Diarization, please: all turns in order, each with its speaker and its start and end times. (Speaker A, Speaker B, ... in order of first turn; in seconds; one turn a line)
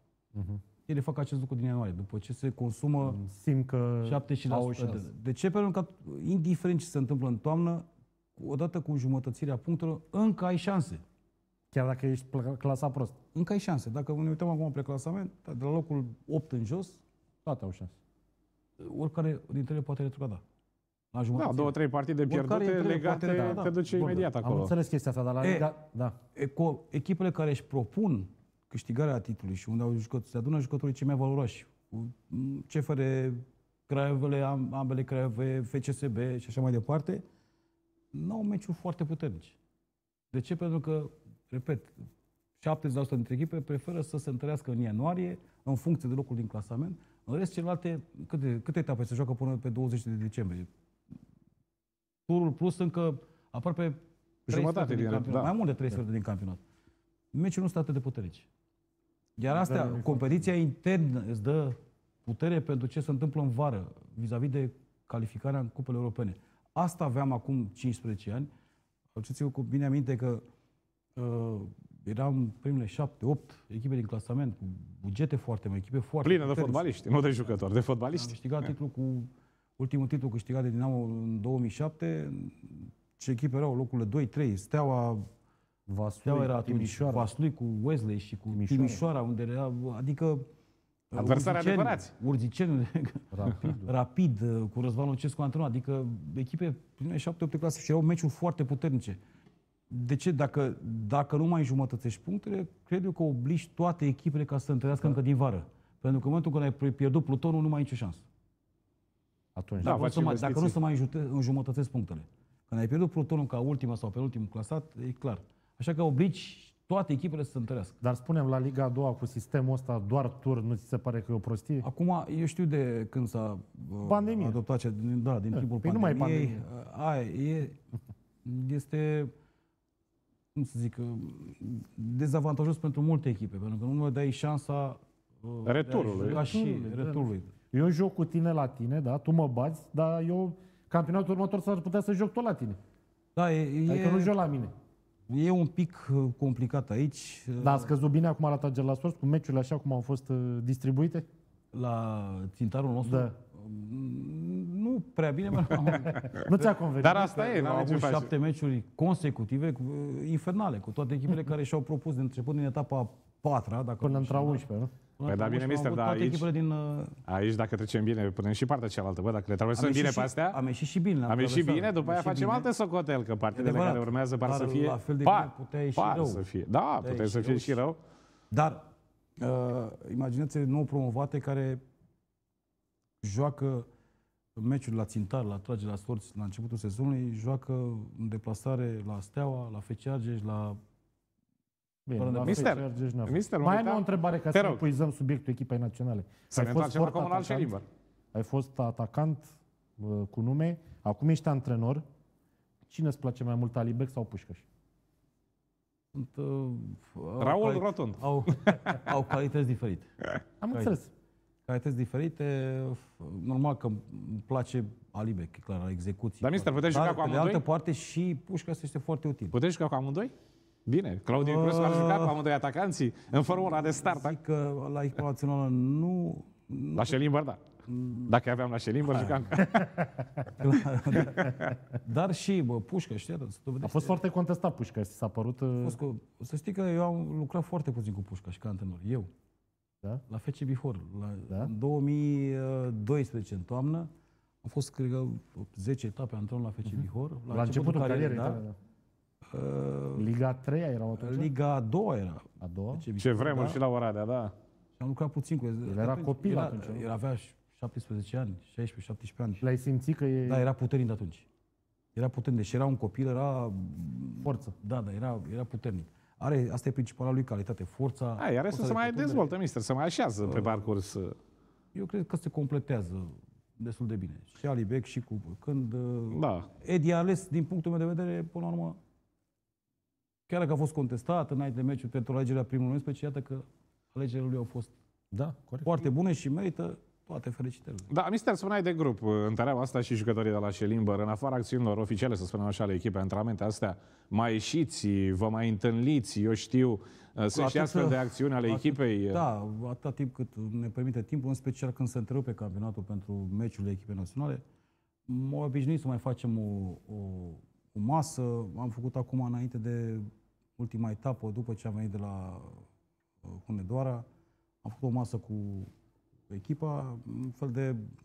Speaker A: 0.3-0.6
Speaker B: 0.9-3.2
Speaker A: 3.0-5.0
Speaker B: 4.0-11.0
Speaker A: 11.7-13.2
Speaker B: 13.3-17.0
Speaker A: 17.4-17.9
Speaker B: 18.8-20.4
Speaker B: 21.1-24.3
Speaker C: 21.4-24.7
Speaker A: 23.3-26.2
Speaker B: 25.4-25.7
Speaker B: 26.3-37.2
Speaker B: 38.1-39.6
Speaker B: 40.3-42.0
Speaker B: 42.6-50.7
Speaker B: 52.3-56.6
Speaker C: 54.5-55.5
Speaker B: 57.3-58.5
Speaker B: 59.4-68.5
Speaker A: 59.5-60.2
Speaker B: 69.1-70.4
Speaker B: 71.2-76.9
Speaker C: 76.2-78.3
Speaker B: 78.1-85.3
Speaker A: 85.9-87.3
Speaker B: 86.2-90.4
Speaker A: 88.5-89.0
Speaker B: 91.1-99.2
Speaker C: 91.2-92.1
Speaker A: 93.3-93.9
Speaker B: 99.9-108.2
Speaker A: 109.5-110.0
Speaker B: 109.8-118.0
Speaker C: 109.8-110.7
Speaker A: 118.0-121.8
Speaker B: 121.8-127.8
Speaker A: 124.0-124.6
Speaker A: 125.5-126.6
Speaker B: 128.4-129.3
Speaker B: 130.5-137.5
Speaker C: 135.6-136.4
Speaker A: 136.1-142.8
Speaker B: 143.3-144.4
Speaker A: 143.9-144.7
Speaker B: 145.3-147.9
Speaker A: 147.6-151.2
Speaker B: 151.7-164.6
Speaker A: 153.1-153.4
Speaker A: 155.9-157.9
Speaker C: 157.0-158.3
Speaker A: 164.0-164.9
Speaker B: 165.2-167.2
Speaker C: 165.3-166.4
Speaker C: 167.3-170.6
Speaker B: 169.7-172.7
Speaker C: 171.3-178.0
Speaker B: 173.5-176.4
Speaker B: 177.0-177.8
Speaker B: 178.5-181.8
Speaker B: 183.2-183.9
Speaker B: 184.6-190.8
Speaker A: 192.1-197.7
Speaker B: 192.2-192.8
Speaker C: 192.4-194.8
Speaker C: 196.5-197.8
Speaker A: 198.3-202.0
Speaker A: 202.9-204.6
Speaker B: 206.1-210.1
Speaker C: 207.4-209.0
Speaker A: 210.6-211.1
Speaker B: 211.7-219.6
Speaker C: 216.4-217.6
Speaker C: 219.5-220.3
Speaker C: 220.9-224.3
Speaker B: 221.3-222.4
Speaker B: 223.5-227.2
Speaker C: 226.9-227.6
Speaker B: 227.9-228.3
Speaker C: 228.3-229.7
Speaker B: 229.0-229.6
Speaker A: 229.6-230.6
Speaker B: 230.5-234.2
Speaker C: 231.2-231.7
Speaker A: 233.8-236.0
Speaker B: 235.8-239.3
Speaker B: 240.3-244.1
Speaker B: 244.6-248.6
Speaker A: 246.9-248.8
Speaker B: 249.5-250.3
Speaker A: 250.2-251.5
Speaker B: 251.2-253.8
Speaker A: 252.6-253.0
Speaker C: 253.2-254.5
Speaker B: 255.0-259.6
Speaker A: 255.8-257.1
Speaker A: 259.6-260.6
Speaker B: 260.5-261.5
Speaker B: 262.1-269.5
Speaker A: 264.4-264.7
Speaker C: 268.4-271.3
Speaker B: 270.4-270.9
Speaker B: 271.9-279.0
Speaker C: 276.3-276.7
Speaker B: 280.5-284.9
Speaker A: 285.3-286.0
Speaker B: 285.8-288.1
Speaker C: 288.1-299.4
Speaker B: 297.5-304.6
Speaker B: 305.3-310.3
Speaker B: 310.8-312.8
Speaker B: 313.4-314.2
Speaker B: 314.8-315.9
Speaker B: 316.5-318.0